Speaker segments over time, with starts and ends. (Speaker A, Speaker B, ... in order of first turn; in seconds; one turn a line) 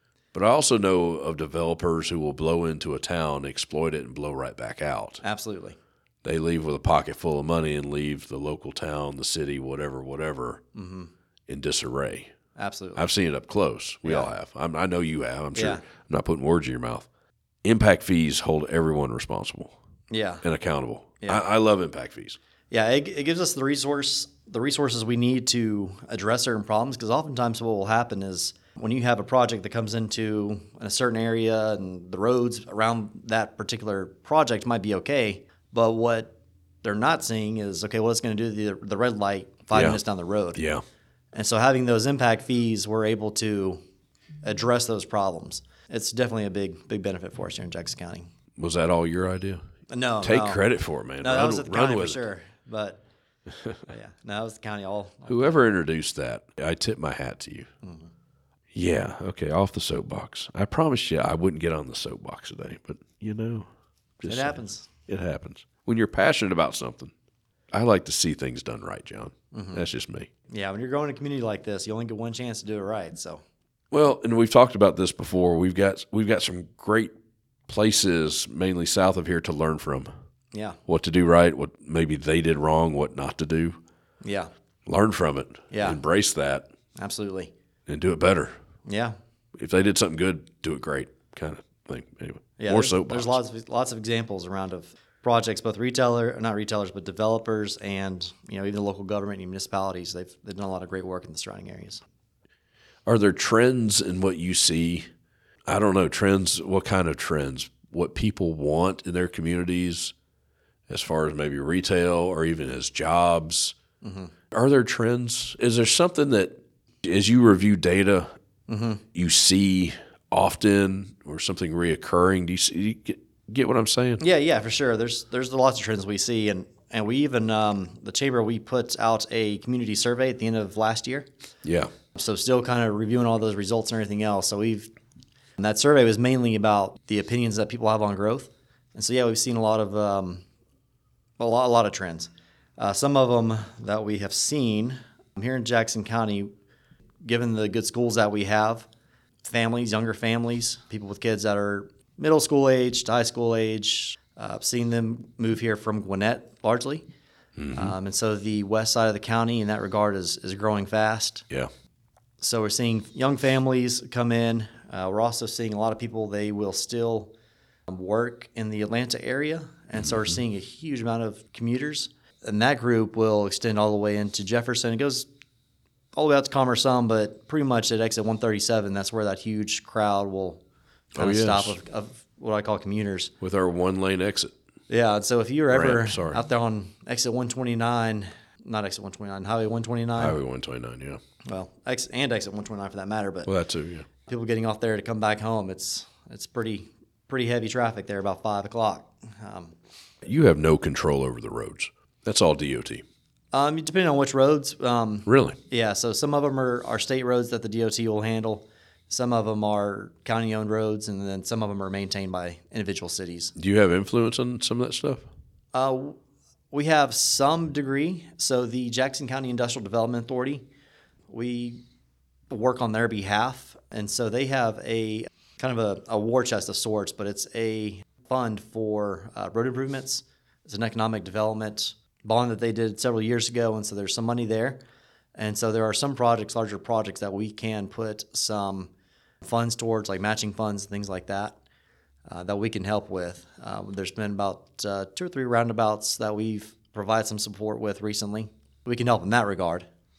Speaker A: 0.3-5.2
Speaker B: 5.2-5.8
Speaker A: 6.2-10.6
Speaker B: 10.8-11.1
Speaker A: 11.5-12.3
Speaker B: 12.6-13.1
Speaker A: 13.0-17.1
Speaker B: 14.1-14.3
Speaker B: 15.6-15.8
Speaker A: 17.6-19.8
Speaker B: 20.1-20.4
Speaker A: 20.4-22.4
Speaker B: 22.7-40.6
Speaker A: 39.7-40.0
Speaker A: 40.5-40.8
Speaker B: 41.3-43.8
Speaker B: 44.4-48.3
Speaker A: 48.6-49.6
Speaker B: 49.9-50.6
Speaker A: 50.2-52.3
Speaker B: 51.2-53.0
Speaker B: 53.9-55.7
Speaker A: 55.3-57.7
Speaker B: 57.8-58.1
Speaker A: 58.7-63.7
Speaker A: 64.2-67.1
Speaker B: 64.3-64.9
Speaker A: 67.7-70.3
Speaker B: 69.5-69.8
Speaker B: 70.5-73.4
Speaker A: 73.9-77.1
Speaker A: 77.7-80.1
Speaker B: 80.5-80.8
Speaker A: 80.9-83.8
Speaker B: 84.2-84.5
Speaker A: 84.9-86.7
Speaker B: 85.7-86.0
Speaker B: 87.0-87.5
Speaker A: 87.9-88.5
Speaker B: 88.9-89.2
Speaker A: 89.6-93.4
Speaker B: 92.6-102.0
Speaker A: 103.1-105.1
Speaker A: 105.7-110.1
Speaker A: 110.9-113.8
Speaker B: 114.0-114.3
Speaker A: 114.5-118.3
Speaker B: 118.7-119.0
Speaker A: 119.2-124.2
Speaker B: 124.2-131.3
Speaker A: 131.7-131.9
Speaker B: 132.1-134.9
Speaker B: 135.6-140.4
Speaker B: 141.4-146.5
Speaker B: 147.2-148.9
Speaker B: 149.4-157.1
Speaker A: 157.6-157.9
Speaker B: 157.7-161.5
Speaker B: 162.4-167.3
Speaker B: 167.9-175.3
Speaker B: 176.2-180.6
Speaker A: 181.2-181.8
Speaker B: 181.2-183.3
Speaker A: 183.4-184.5
Speaker B: 184.9-190.4
Speaker A: 185.7-186.4
Speaker A: 190.2-191.2
Speaker B: 191.4-193.5
Speaker A: 193.5-194.1
Speaker B: 194.3-199.8
Speaker A: 200.2-203.0
Speaker B: 203.5-213.5
Speaker A: 205.3-205.6
Speaker A: 213.6-215.3
Speaker B: 215.7-216.2
Speaker B: 216.7-220.7
Speaker B: 221.3-221.8
Speaker B: 222.5-234.8
Speaker B: 235.3-238.9
Speaker B: 239.4-241.6
Speaker B: 242.3-249.9